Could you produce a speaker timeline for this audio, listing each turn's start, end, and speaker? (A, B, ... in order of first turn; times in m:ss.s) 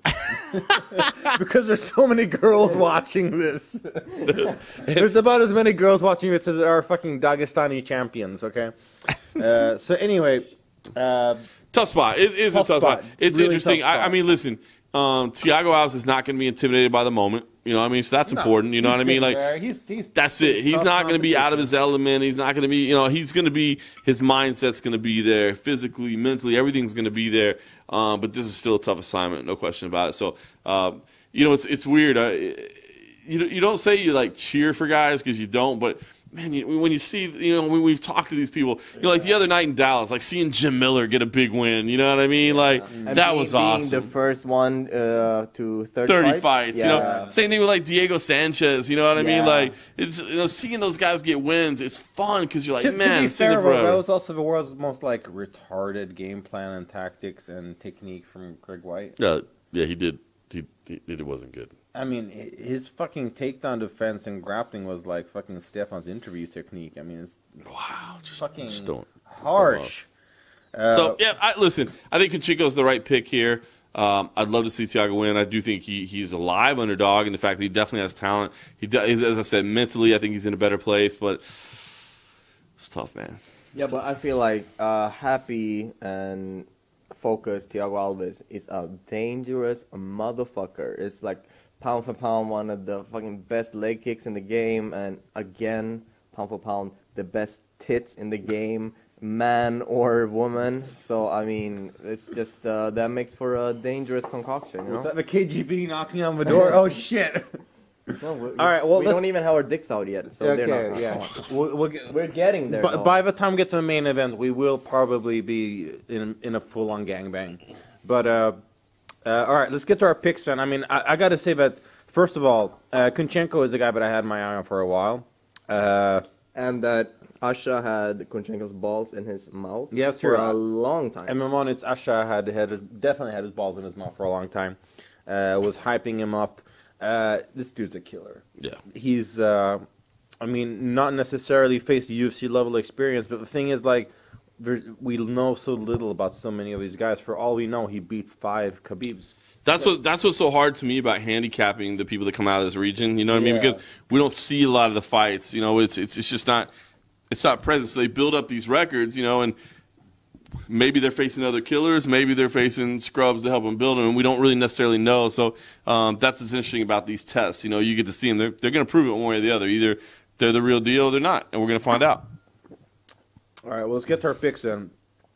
0:00.2-0:01.1 A
0:00.5-0:08.7 B
0:04.2-0:05.0 A
0:09.3-0:11.4 B
0:11.7-0:19.4 A
0:12.5-0:14.2 B
0:18.3-0:21.7 B
0:20.2-0:44.1 A
0:42.4-0:47.2 C
0:42.9-0:43.2 B
0:46.1-0:54.0 A
0:46.8-0:47.3 B
0:49.1-0:49.7 C
0:52.8-0:59.2 B
0:59.2-1:01.7 A
1:01.9-1:07.4 B
1:07.7-1:09.9 A
1:08.4-1:10.1 B
1:10.7-1:11.2 B
1:10.9-1:22.2 A
1:22.8-1:23.4 A
1:23.8-1:45.1 C
1:44.8-1:47.6 B
1:46.5-1:46.7 C
1:48.2-1:51.3 C
1:48.6-1:49.2 B
1:50.4-1:52.2 B
1:52.1-1:53.1 C
1:52.7-1:58.6 B
1:59.2-2:06.2 B
2:06.5-2:11.4 C
2:09.9-2:10.6 B
2:11.3-2:19.8 B
2:20.4-2:29.9 B
2:29.6-2:36.7 A
2:33.3-2:33.8 B
2:37.3-2:39.5 A
2:40.7-2:52.3 A
2:53.6-2:54.9 B